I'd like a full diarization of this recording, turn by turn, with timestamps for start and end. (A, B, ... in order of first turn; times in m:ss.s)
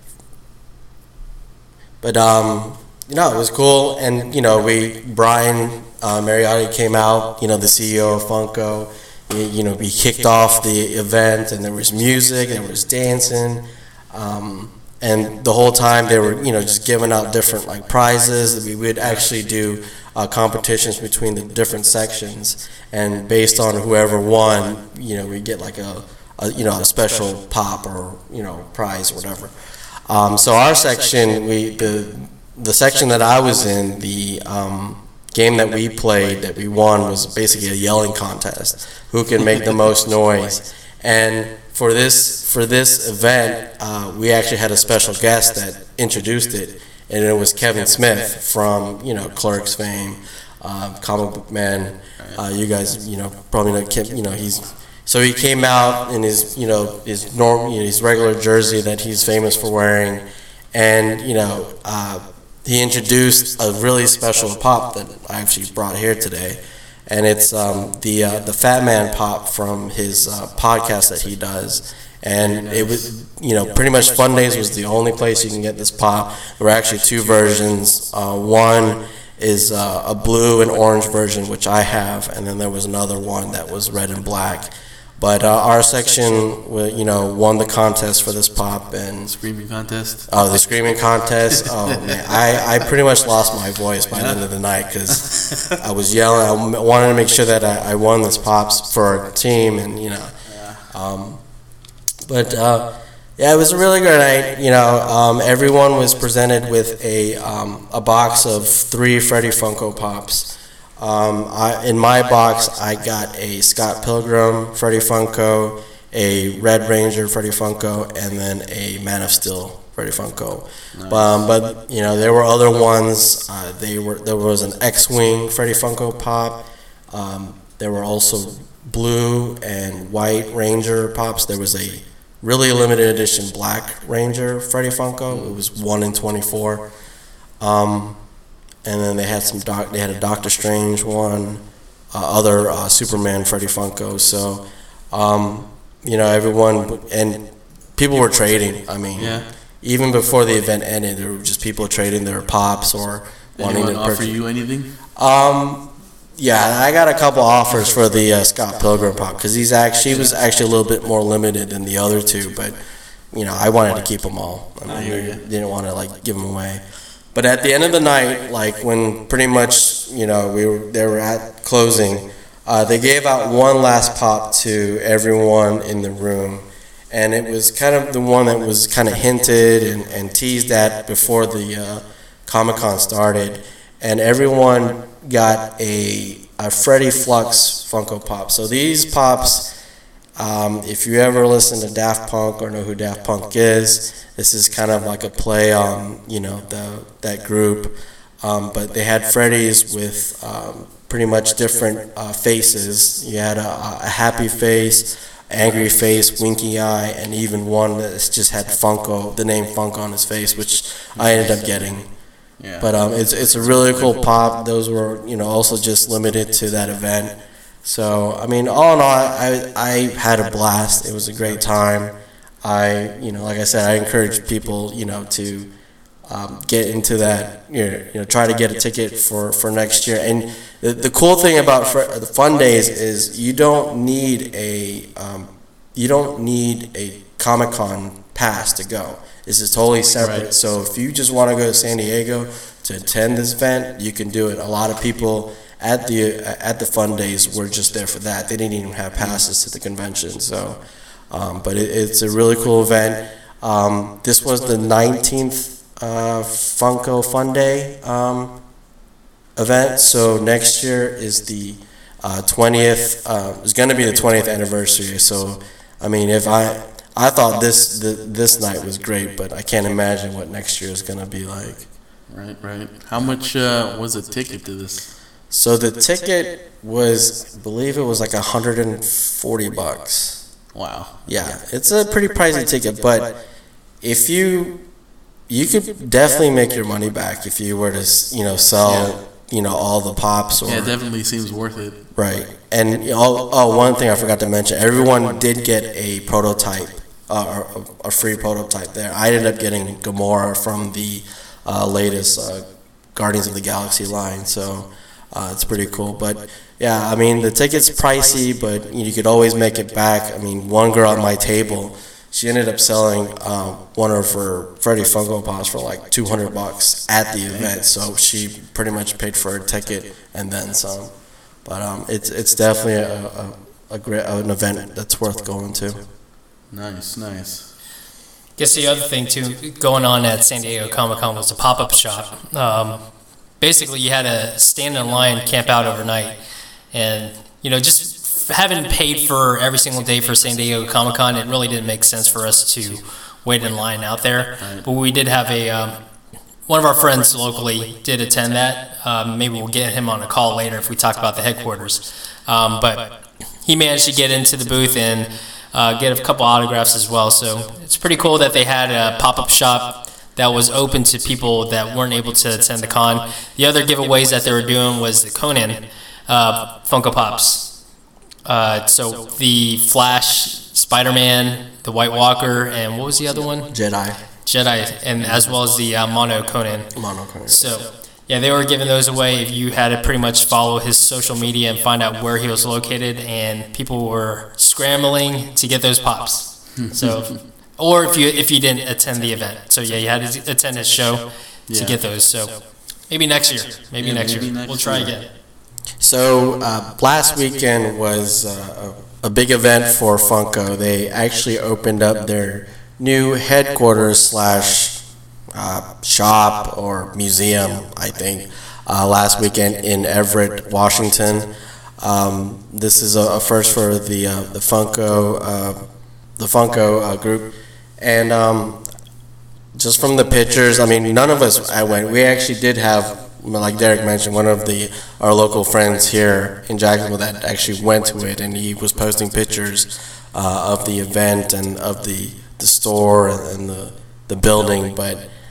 0:02.0-0:29.5 A
0:30.1-1:29.3 A
1:12.4-1:13.1 B
1:29.3-1:30.4 B
1:30.3-1:40.3 A
1:31.6-1:32.2 B
1:34.1-1:34.4 B
1:35.1-1:35.8 B
1:40.5-1:40.9 B
1:40.9-1:41.4 A
1:42.3-2:16.9 A
2:00.9-2:01.4 B
2:17.6-2:18.2 A
2:18.8-2:34.4 A
2:29.2-2:29.5 B
2:33.6-2:34.9 B
2:35.2-2:42.8 A
2:43.3-2:46.8 A
2:44.9-2:45.4 B
2:47.3-3:09.7 A
3:10.4-3:32.1 A
3:25.6-3:25.9 B
3:31.2-3:31.6 B
3:32.6-3:33.0 B
3:32.8-3:45.7 A
3:33.6-3:34.1 B
3:46.3-4:18.6 A
4:00.2-4:00.5 B
4:19.6-4:31.9 A
4:32.3-4:35.1 B
4:35.5-4:40.4 A
4:40.8-4:41.2 B
4:41.3-4:43.4 A
4:44.0-4:44.8 A
4:45.5-4:51.0 A
4:48.8-4:49.1 B
4:50.7-4:52.1 B
4:52.2-5:21.1 A
5:21.6-5:26.0 A
5:26.7-5:27.7 B
5:28.6-5:33.0 C
5:33.6-5:36.4 C
5:36.9-5:46.0 C
5:44.6-5:44.9 B
5:46.7-6:07.7 C
6:08.4-6:13.7 C
6:13.7-6:14.2 A
6:14.4-6:16.9 C
6:15.2-6:15.5 B
6:17.0-6:17.7 A
6:17.5-6:35.3 C
6:26.8-6:27.4 B
6:31.7-6:32.0 B
6:34.0-6:35.1 B
6:36.0-6:45.0 A
6:45.5-6:51.5 A
6:52.0-6:55.8 A
6:56.4-6:58.8 A
6:59.8-7:15.3 A